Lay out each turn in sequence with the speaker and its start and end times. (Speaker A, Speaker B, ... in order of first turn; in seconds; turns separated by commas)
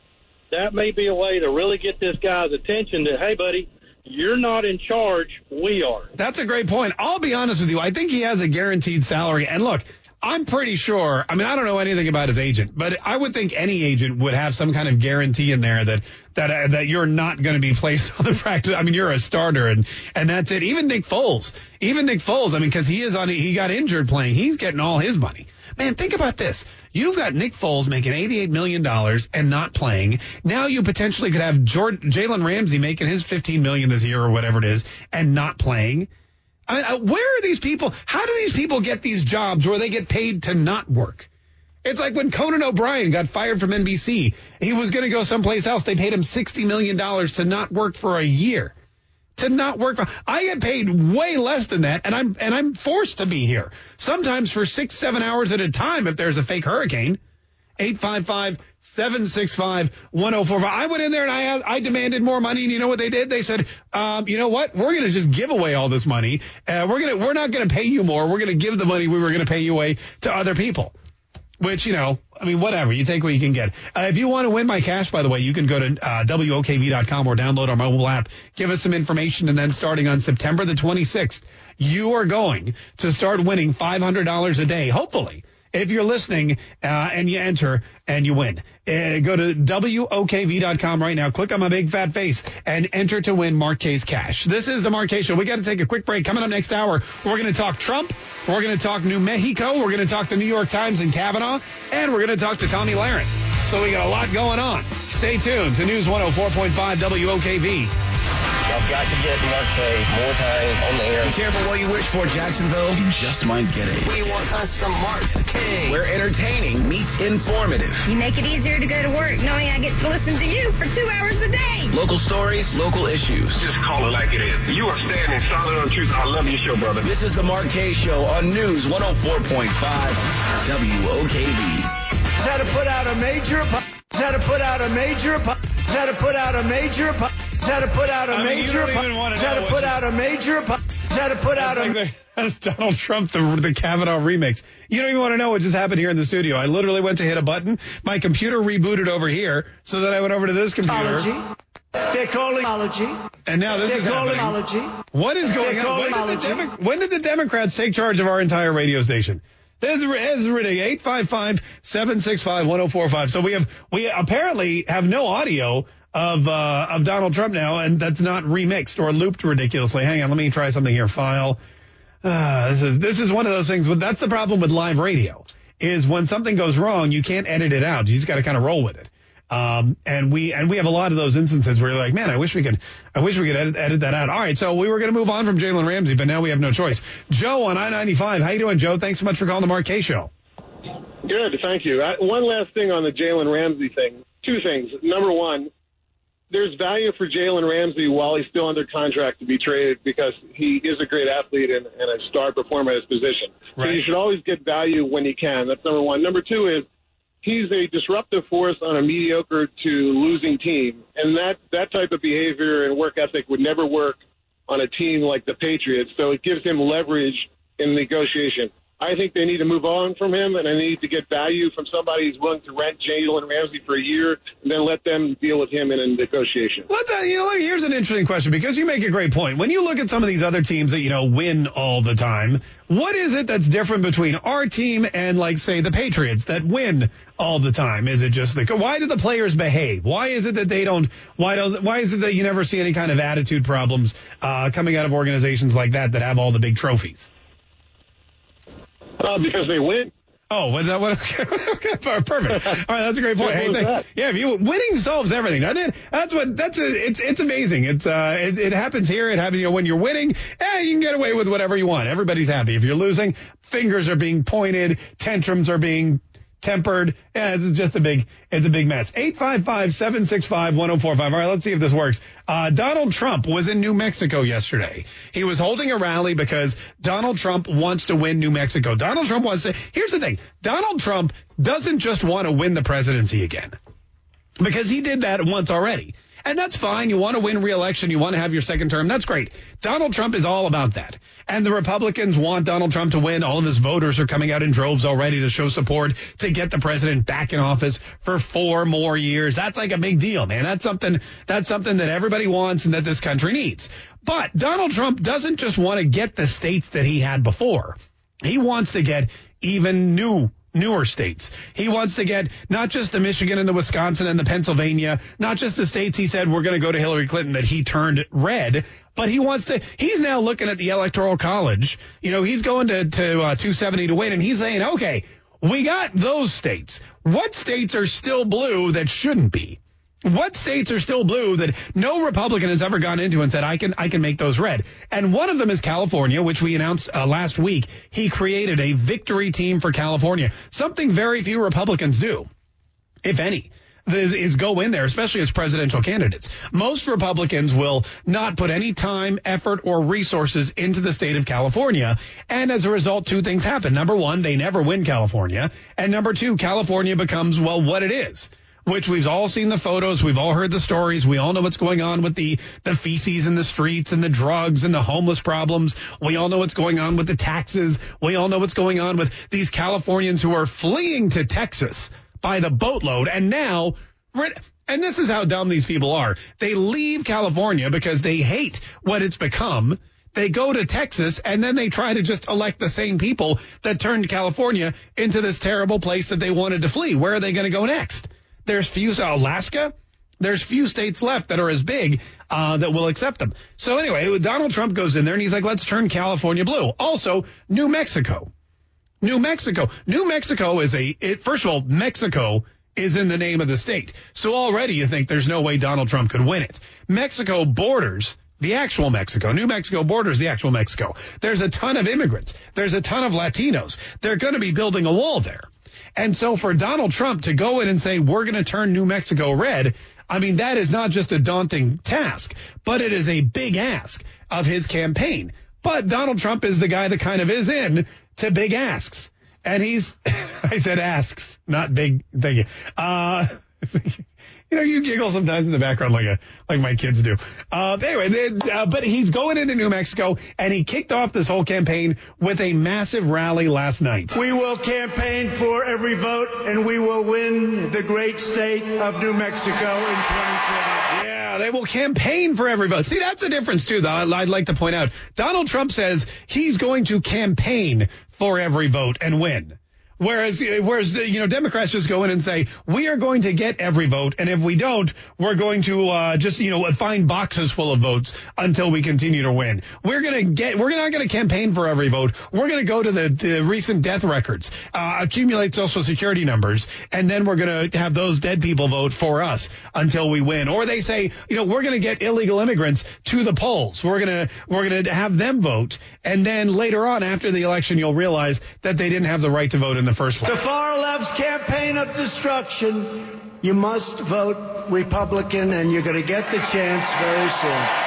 Speaker A: 0.5-6.1, Speaker B: 6.2-36.1, Speaker B: 36.7-41.3, Speaker B: 41.8-48.8, Speaker B: 49.4-57.2, Speaker B: 57.8-70.9, Speaker B: 71.6-107.9, Speaker C: 108.7-111.4, Speaker D: 111.2-114.4, Speaker C: 114.0-116.0, Speaker D: 115.9-118.1, Speaker E: 118.1-121.9, Speaker D: 121.9-123.7, Speaker F: 123.6-127.1, Speaker D: 127.0-131.9, Speaker G: 132.4-142.0, Speaker B: 138.3-140.0, Speaker B: 141.6-151.3, Speaker G: 150.8-151.4, Speaker G: 152.1-153.2, Speaker B: 153.5-154.6, Speaker G: 153.8-154.9, Speaker B: 155.1-171.6, Speaker G: 155.5-156.6, Speaker B: 172.2-190.3, Speaker H: 191.2-195.7, Speaker H: 196.5-206.9, Speaker B: 203.8-204.0, Speaker H: 207.4-226.9, Speaker B: 226.9-247.3, Speaker H: 249.2-250.1, Speaker B: 250.5-283.7, Speaker H: 253.4-254.0, Speaker B: 284.6-342.5, Speaker B: 343.2-398.5, Speaker B: 399.2-444.4, Speaker G: 444.3-451.1, Speaker B: 451.1-490.6, Speaker G: 490.4-497.9